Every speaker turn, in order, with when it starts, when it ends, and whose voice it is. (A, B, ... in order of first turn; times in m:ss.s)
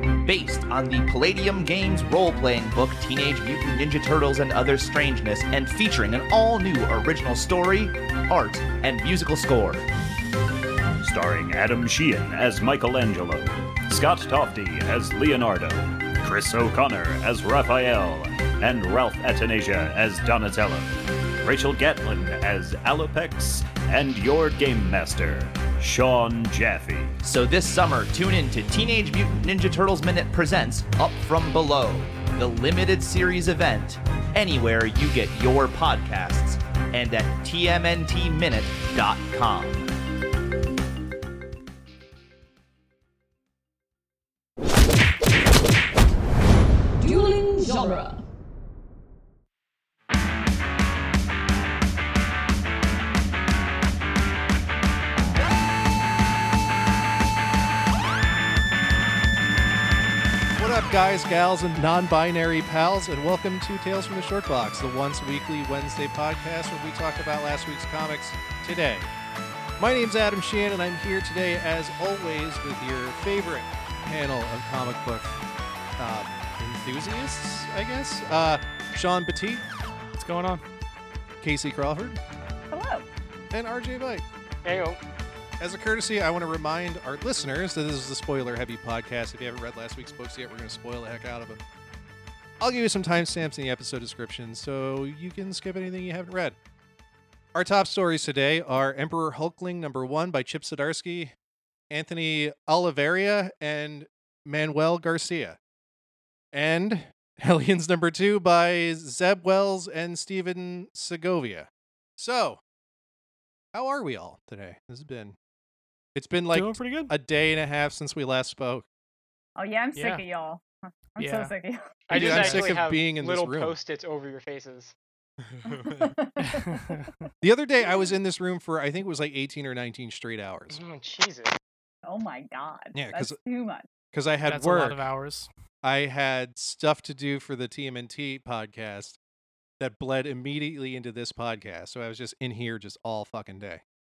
0:00.2-0:09.9 A
0:11.0-0:27.2 B
0:27.2-0:39.9 A
0:47.1-0:48.2 A
1:00.6-1:09.1 C
1:09.8-1:15.4 C
1:16.0-1:19.6 C
1:20.2-1:20.6 D
1:21.4-1:22.2 C
1:22.7-1:23.1 E
1:23.5-1:24.2 C
1:24.6-1:25.0 F
1:25.6-1:31.6 C
1:32.6-1:36.6 C
1:37.5-1:41.3 C
1:41.9-1:45.6 C
1:46.5-1:52.6 C
1:53.7-1:55.4 C
1:56.2-1:58.9 C
1:56.5-1:57.1 D
1:59.6-2:02.5 E
2:00.0-2:00.2 D
2:01.2-2:01.5 D
2:02.1-2:05.0 F
2:02.1-2:03.8 C
2:02.3-2:02.7 D
2:05.4-2:06.2 C
2:05.7-2:07.1 E
2:06.4-2:07.1 D
2:07.4-2:10.8 C
2:10.7-2:11.6 F
2:12.0-2:13.9 E
2:12.9-2:13.4 C
2:14.1-2:15.0 C
2:14.5-2:15.5 D
2:15.8-2:19.2 C
2:19.8-2:23.8 C